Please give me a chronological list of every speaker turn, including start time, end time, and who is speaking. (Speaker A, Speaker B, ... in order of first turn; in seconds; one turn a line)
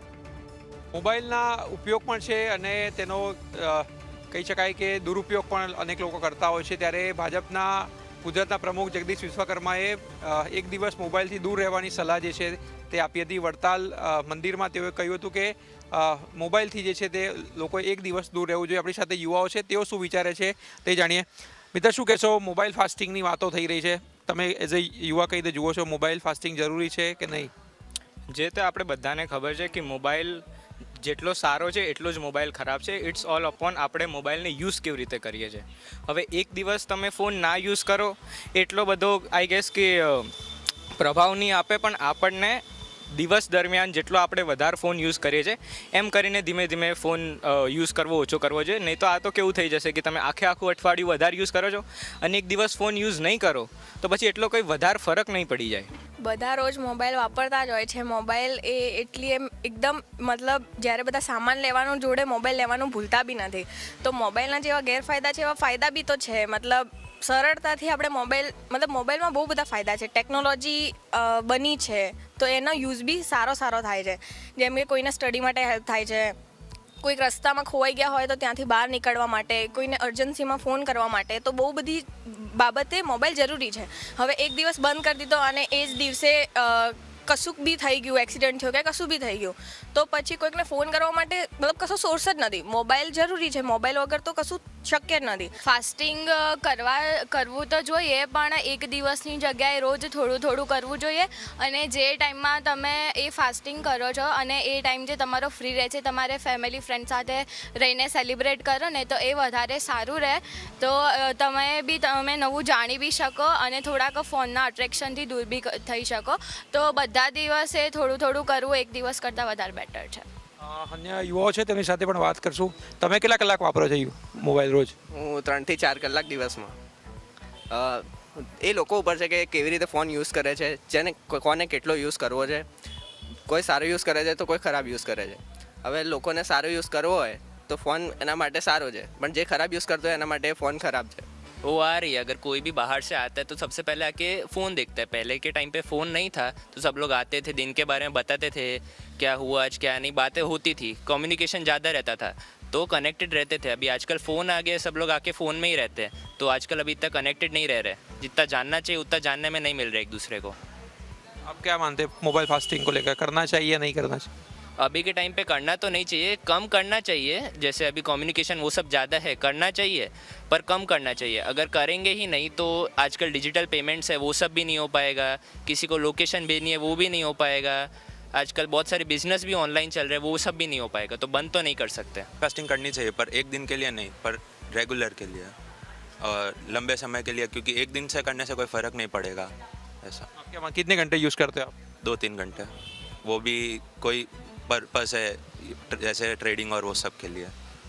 Speaker A: 0.9-27.5
Speaker B: 28.3-30.4
Speaker B: 31.0-40.3
Speaker B: 41.0-55.9
Speaker C: 56.2-76.4
Speaker C: 77.0-95.5
Speaker D: 95.6-120.2
Speaker A: 120.6-124.9
Speaker E: 125.1-126.8
Speaker E: 127.7-132.7
Speaker E: 133.5-141.2
Speaker F: 141.6-160.6
Speaker A: 161.4-164.3
Speaker F: 164.8-182.3
Speaker G: 182.4-185.5
Speaker G: 186.2-189.5
Speaker A: 190.4-191.7
Speaker G: 192.0-192.7
Speaker G: 193.2-197.5